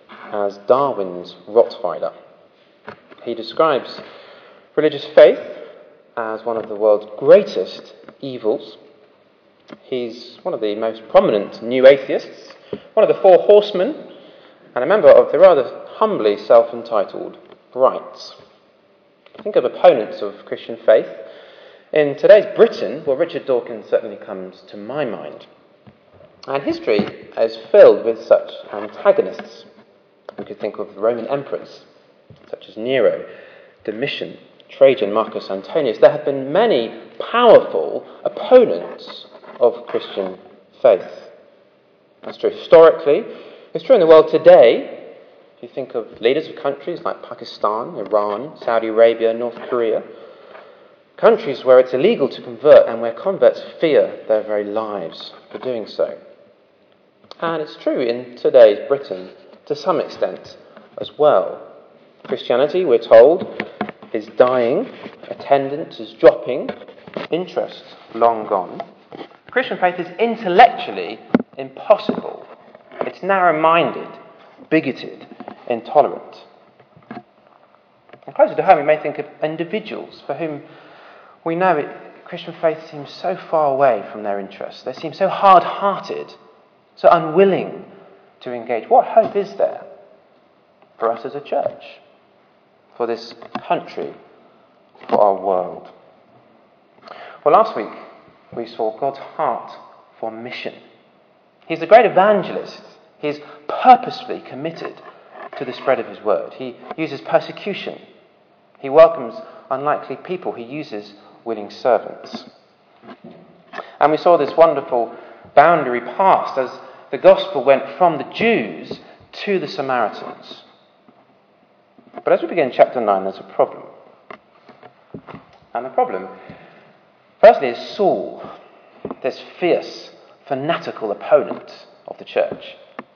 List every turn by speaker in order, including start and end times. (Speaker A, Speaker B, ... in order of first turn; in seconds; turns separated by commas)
Speaker A: 0.3-2.1, Speaker A: 3.2-4.0, Speaker A: 4.7-8.8, Speaker A: 9.8-14.0, Speaker A: 14.7-18.4, Speaker A: 19.4-21.2, Speaker A: 21.9-25.5, Speaker A: 26.5-29.7, Speaker A: 30.4-31.9, Speaker A: 32.5-33.3, Speaker A: 33.8-41.3, Speaker A: 42.2-50.0, Speaker A: 51.2-56.2, Speaker A: 57.4-61.7, Speaker A: 62.2-66.7, Speaker A: 67.3-68.8, Speaker A: 69.5-72.5, Speaker A: 73.0-74.1, Speaker A: 74.7-76.5, Speaker A: 78.3-80.7, Speaker A: 81.4-86.4, Speaker A: 87.0-89.9, Speaker A: 91.0-92.0, Speaker A: 92.9-94.2, Speaker A: 95.0-95.9, Speaker A: 97.4-97.9, Speaker A: 98.5-100.8, Speaker A: 101.7-105.0, Speaker A: 105.5-108.0, Speaker A: 108.8-112.5, Speaker A: 114.0-120.6, Speaker A: 122.2-123.9, Speaker A: 125.7-126.3, Speaker A: 127.4-128.5, Speaker A: 129.2-132.8